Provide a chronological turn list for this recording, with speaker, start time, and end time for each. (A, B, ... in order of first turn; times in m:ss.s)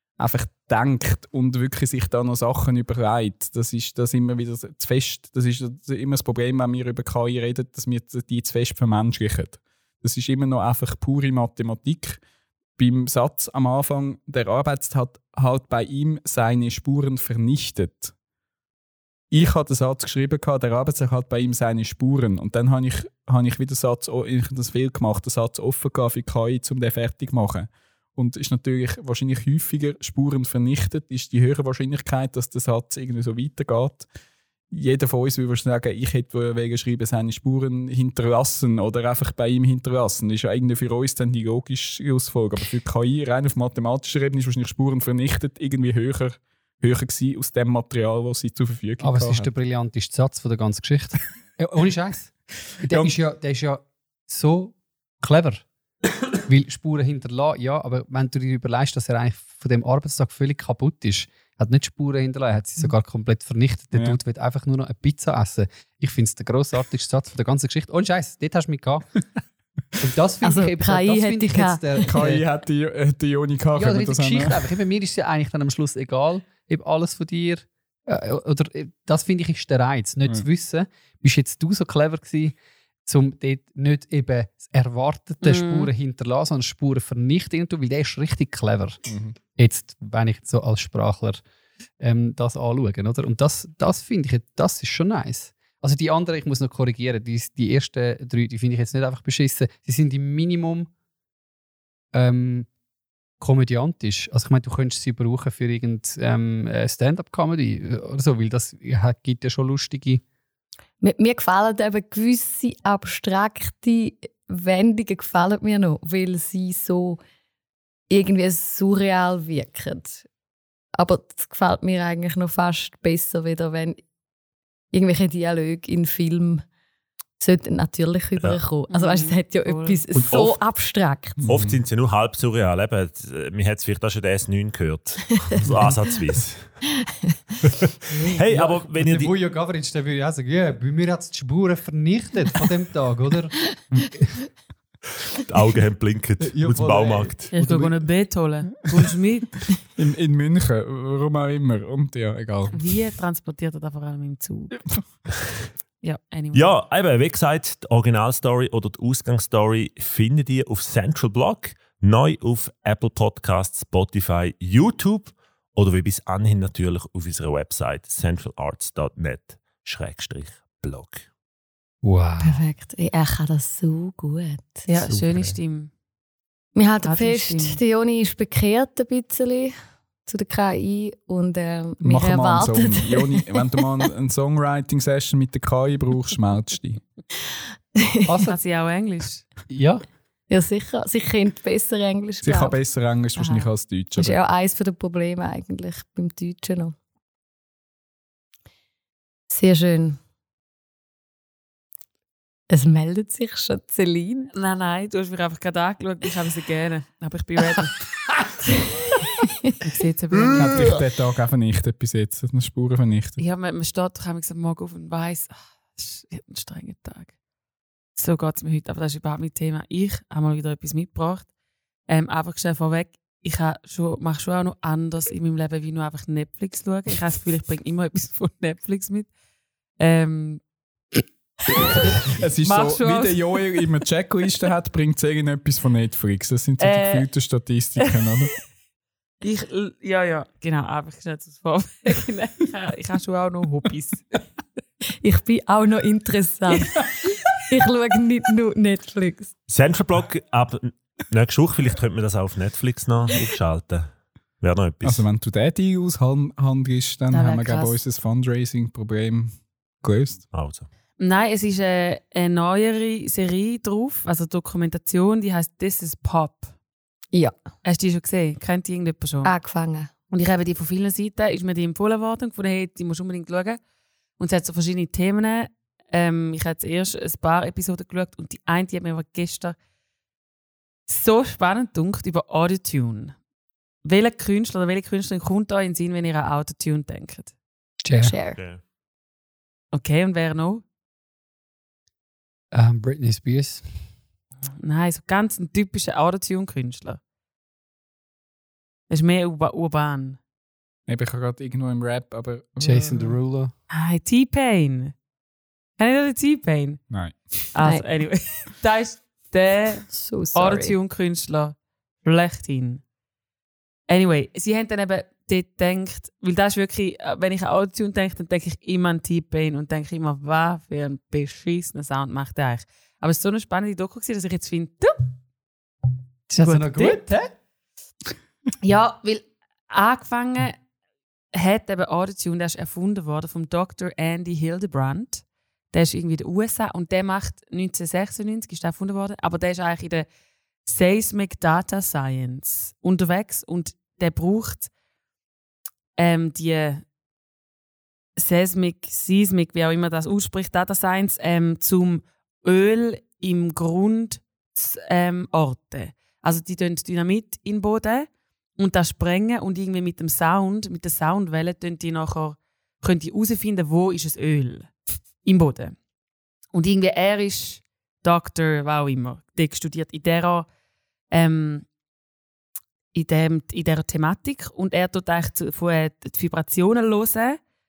0:00.2-0:12.2 A
0:12.8-0:18.1 A
0:19.3-0:34.1 A
0:34.7-0:49.5 A
0:49.0-0:55.6 B
0:52.9-0:53.1 A
0:56.4-1:09.2 B
1:10.0-1:12.4 B
1:10.4-1:12.0 C
1:12.1-1:14.6 A
1:13.8-1:29.0 B
1:25.4-1:25.9 D
1:29.1-1:29.4 A
1:29.6-1:31.4 B
1:32.0-1:40.9 B
1:42.1-1:42.7 B
1:43.4-1:50.2 B
1:51.0-1:57.2 C
1:58.1-2:00.2 C
2:01.0-2:04.0 C
2:04.9-2:06.6 C
2:07.4-2:11.4 C
2:08.9-2:10.0 D
2:10.2-2:10.6 E
2:11.4-2:11.8 A
2:11.4-2:16.8 E
2:18.3-2:19.3 E
2:18.5-2:24.4 B
2:25.5-2:27.5 E
2:26.4-2:28.1 A
2:27.5-2:29.7 D
2:28.7-2:29.0 A
2:30.0-2:33.0 A
2:32.7-2:34.7 D
2:36.0-2:36.8 D
2:36.5-2:51.3 E
2:52.0-2:52.6 B
2:52.4-2:54.9 C
2:54.9-2:55.9 D
2:55.0-2:55.6 A
2:56.8-3:03.8 C
2:57.0-2:57.8 D
3:02.0-3:07.0 A
3:08.0-3:08.3 C
3:08.3-3:08.6 B
3:08.4-3:09.5 D
3:09.7-3:10.0 B
3:10.5-3:12.8 C
3:12.4-3:14.4 A
3:13.4-3:13.7 D
3:14.2-3:16.9 C
3:19.5-3:20.2 C
3:22.7-3:24.5 C
3:24.5-3:28.0 D
3:29.8-3:31.0 D
3:30.5-3:33.4 A
3:33.4-3:37.3 D
3:38.2-3:41.5 D
3:42.1-3:49.3 D
3:50.0-3:50.6 D
3:51.8-3:53.6 D
3:52.3-3:58.5 A
3:56.8-3:57.3 D
3:59.4-4:04.2 D
4:05.2-4:09.5 C
4:09.7-4:15.3 E
4:15.0-4:20.4 A
4:17.3-4:18.0 D
4:20.5-4:20.9 E
4:21.2-4:26.7 D
4:27.8-4:29.5 D
4:29.4-4:30.1 C
4:30.3-4:33.8 D
4:34.4-4:39.8 D
4:41.1-4:43.4 D
4:44.0-4:47.5 D
4:48.0-4:48.3 B
4:48.2-4:48.6 C
4:49.9-4:50.8 D
4:52.7-4:54.1 B
4:54.8-4:57.2 D
4:59.1-5:00.4 D
5:01.1-5:03.4 A
5:02.8-5:03.7 B
5:03.9-5:05.2 D
5:06.0-5:07.0 D
5:07.1-5:07.6 A
5:07.7-5:13.0 D
5:07.8-5:08.1 C
5:10.1-5:11.0 C
5:14.1-5:25.3 D
5:26.5-5:27.5 B
5:26.6-5:27.3 D
5:28.8-5:30.8 D
5:31.5-5:40.3 D
5:40.8-5:44.9 D
5:46.2-5:47.0 D
5:48.4-6:04.9 D
6:05.4-6:06.0 D
6:06.7-6:10.7 D
6:11.3-6:11.9 D
6:13.1-6:17.6 D